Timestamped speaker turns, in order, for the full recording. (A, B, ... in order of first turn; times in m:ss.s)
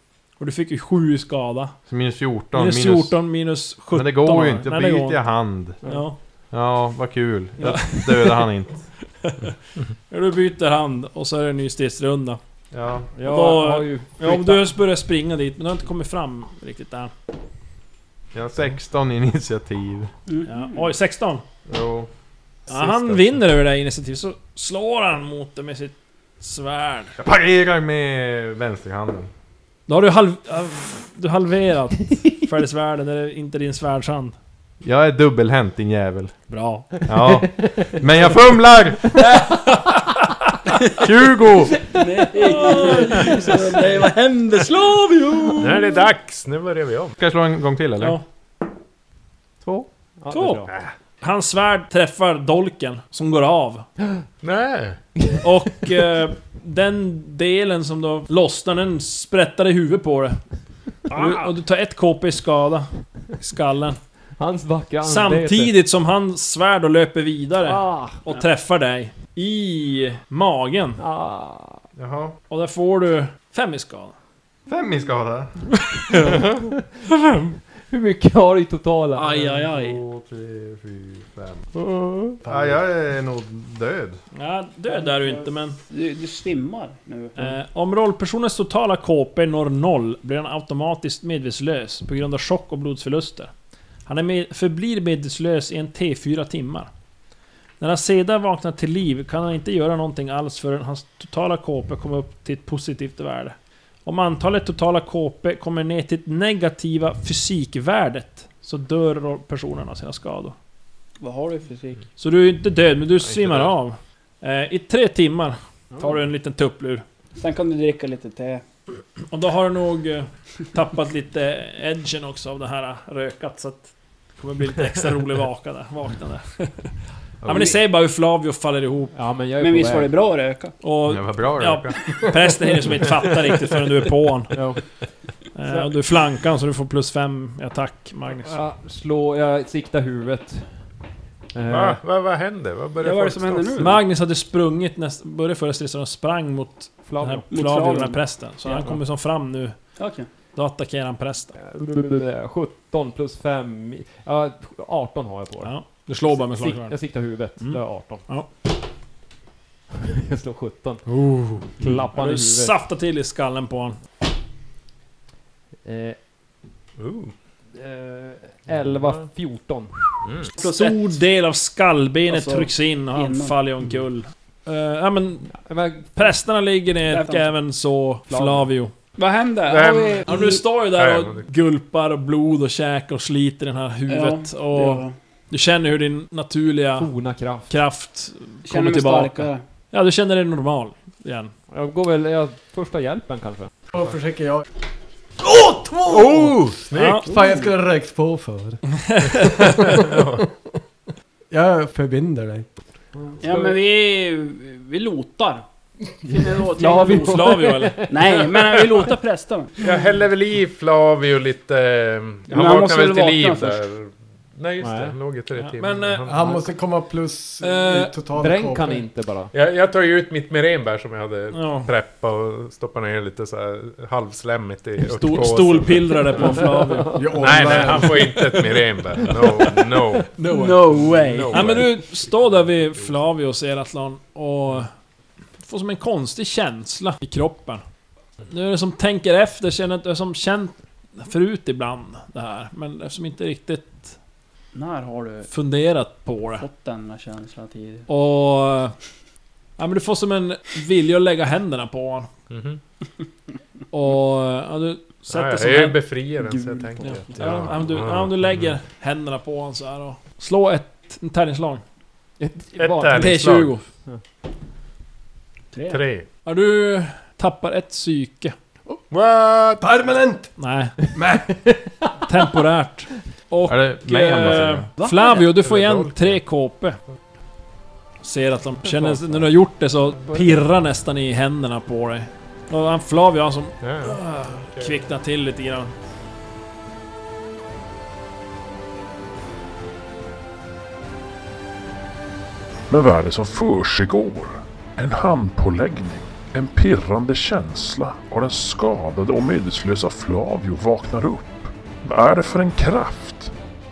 0:00.4-0:01.8 A
0:01.9-0:05.8 B
0:02.5-0:05.2 A
0:05.8-0:06.2 A
0:06.5-0:09.0 B
0:07.6-0:08.3 C
0:07.6-0:08.0 A
0:09.2-0:09.5 A
0:10.1-0:12.4 A
0:12.7-0:13.1 B
0:13.1-0:14.7 C
0:13.2-0:17.1 A
0:18.3-0:20.1 B
0:20.3-0:20.8 D
0:20.4-0:21.4 A
0:21.7-0:22.1 B
0:22.7-0:23.4 E
0:22.7-0:27.2 A
0:27.2-0:29.3 B
0:29.9-0:34.4 A
0:34.8-0:36.4 B
0:36.5-0:37.0 A
0:37.0-0:39.4 B
0:37.2-0:37.9 C
0:39.7-0:40.0 A
0:41.0-0:41.9 B
0:42.0-0:46.0 D
0:42.0-0:43.8 C
0:42.4-0:43.9 A
0:45.6-0:47.1 E
0:47.2-0:48.2 B
0:49.6-0:50.7 C
0:50.3-0:50.6 A
0:50.7-0:50.9 E
0:51.2-0:53.8 A
0:54.4-0:55.0 E
0:55.4-1:00.4 A
1:01.1-1:04.0 A
1:01.1-1:01.5 C
1:04.4-1:05.7 C
1:05.0-1:11.0 A
1:07.6-1:08.4 C
1:11.0-1:11.8 C
1:12.0-1:12.4 B
1:12.5-1:14.1 A
1:14.7-1:16.7 B
1:17.8-1:19.4 C
1:19.2-1:20.0 D
1:19.2-1:21.7 B
1:21.7-1:22.4 C
1:22.4-1:24.2 B
1:22.4-1:22.7 F
1:24.3-1:25.8 A
1:24.9-1:27.5 D
1:27.4-1:33.5 A
1:34.0-1:36.9 A
1:37.8-1:50.5 A
1:51.2-1:52.0 D
1:52.2-1:57.0 A
1:53.2-1:53.7 B
1:55.9-1:56.2 C
1:57.4-1:58.6 D
1:59.3-2:09.1 A
2:07.4-2:07.8 B
2:09.1-2:10.1 C
2:09.6-2:10.8 D
2:10.8-2:14.7 A
2:11.0-2:12.2 B
2:14.5-2:16.0 C
2:15.5-2:18.6 A
2:18.4-2:20.9 C
2:21.5-2:22.0 C
2:21.7-2:23.9 E
2:23.0-2:24.0 D
2:23.8-2:30.0 A
2:27.0-2:27.4 C
2:27.5-2:29.0 D
2:30.0-2:30.3 D
2:30.5-2:31.6 A
2:31.6-2:38.3 C
2:35.6-2:38.5 A
2:39.9-2:42.7 C
2:41.8-2:44.0 A
2:45.8-2:46.2 C
2:47.0-2:47.3 E
2:47.7-2:50.2 C
2:48.9-2:49.3 E
2:50.2-2:50.5 E
2:50.6-2:51.2 D
2:50.6-2:55.6 A
2:52.3-2:53.5 D
2:55.5-2:56.4 C
2:56.1-2:58.9 A
2:57.1-2:57.5 D
2:58.3-2:58.7 C
2:59.2-3:00.6 D
2:59.7-3:00.3 E
3:00.2-3:07.1 A
3:00.8-3:01.5 E
3:04.1-3:05.1 D
3:07.0-3:07.7 C
3:07.7-3:11.5 A
3:08.6-3:09.6 D
3:11.7-3:13.7 C
3:13.9-3:14.7 F
3:15.4-3:18.8 F
3:16.0-3:17.3 E
3:16.9-3:17.2 A
3:19.1-3:20.0 A
3:19.4-3:20.4 E
3:21.5-3:22.7 F
3:23.4-3:29.9 D
3:26.2-3:29.0 C
3:26.9-3:28.1 A
3:29.8-3:36.6 E
3:32.5-3:33.8 D
3:34.8-3:35.2 C
3:35.5-3:36.6 A
3:36.2-3:39.0 F
3:37.6-3:38.1 A
3:38.4-3:39.5 C
3:39.5-3:46.6 E
3:41.5-3:41.9 A
3:45.0-3:47.2 A
3:46.4-3:47.4 C
3:47.1-3:48.2 F
3:47.4-3:50.3 E
3:50.4-3:50.8 A
3:50.5-3:51.9 D
3:51.0-3:53.2 E
3:51.5-3:54.9 A
3:55.6-3:57.8 A
3:58.4-4:04.1 A
4:04.7-4:05.5 D
4:05.5-4:06.6 A
4:06.6-4:08.0 D
4:08.1-4:08.9 A
4:09.8-4:12.3 A
4:12.5-4:12.8 E
4:13.9-4:16.0 A
4:15.3-4:18.7 E
4:16.4-4:17.2 D
4:17.0-4:21.8 A
4:22.4-4:23.4 C
4:22.8-4:23.8 E
4:23.1-4:23.9 A
4:25.7-4:28.5 A
4:25.9-4:26.3 E
4:29.1-4:29.9 E
4:29.8-4:30.5 F
4:30.6-4:31.0 A
4:31.1-4:32.0 F
4:32.2-4:37.0 A
4:33.7-4:34.9 B
4:35.0-4:35.5 D
4:35.5-4:36.2 E
4:38.2-4:45.9 A
4:38.8-4:39.5 C
4:40.2-4:40.5 C
4:43.8-4:45.1 E
4:52.9-5:03.5 G